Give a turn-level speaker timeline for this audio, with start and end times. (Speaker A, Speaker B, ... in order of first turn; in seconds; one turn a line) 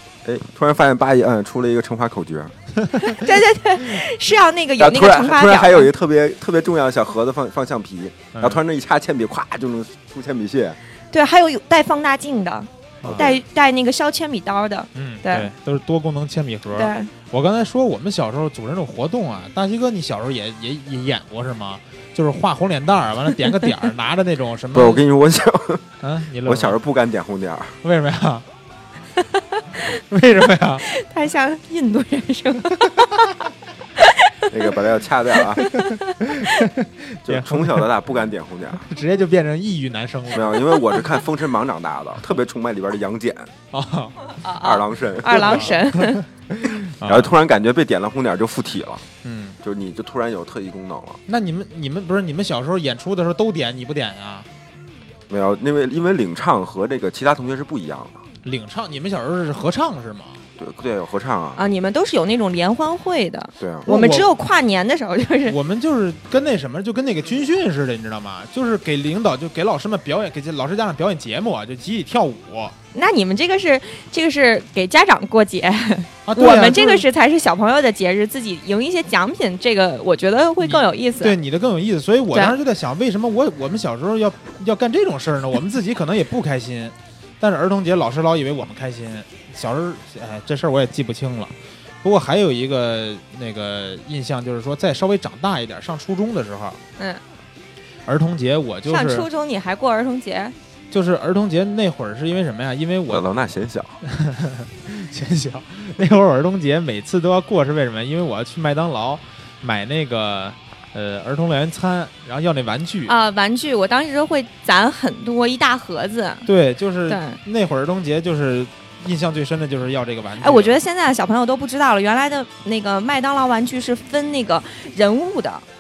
Speaker A: 0.2-2.5
Speaker B: 3.1-5.9
Speaker A: 4.8-10.8
Speaker C: 8.3-8.6
Speaker B: 11.1-15.5
Speaker C: 13.0-13.4
Speaker A: 13.0-13.4
Speaker C: 14.9-25.0
Speaker B: 16.7-17.1
Speaker A: 24.7-25.9
Speaker C: 26.0-26.8
Speaker A: 26.4-27.8
Speaker C: 27.8-28.4
Speaker C: 30.1-30.8
Speaker B: 30.9-33.3
Speaker B: 34.0-34.7
Speaker A: 34.5-35.6
Speaker B: 35.5-36.0
Speaker C: 36.2-37.9
Speaker A: 37.2-38.9
Speaker C: 38.9-40.7
Speaker A: 40.3-43.5
Speaker C: 43.7-44.2
Speaker B: 44.4-46.2
Speaker A: 44.6-45.8
Speaker C: 45.4-47.3
Speaker A: 47.0-49.0
Speaker C: 49.2-49.6
Speaker A: 49.6-51.2
Speaker C: 51.3-54.5
Speaker A: 55.3-58.2
Speaker C: 58.4-60.4
Speaker A: 60.6-61.7
Speaker B: 61.6-65.6
Speaker A: 63.6-63.9
Speaker C: 63.9-64.3
Speaker C: 65.5-72.8
Speaker B: 72.9-81.4
Speaker C: 76.3-77.0
Speaker C: 80.6-96.8
Speaker C: 98.1-99.3
Speaker B: 98.9-100.5
Speaker C: 100.9-103.3
Speaker A: 103.1-104.0
Speaker C: 104.0-113.1
Speaker B: 113.1-116.5
Speaker C: 116.5-120.8
Speaker B: 117.1-117.4
Speaker B: 120.4-125.7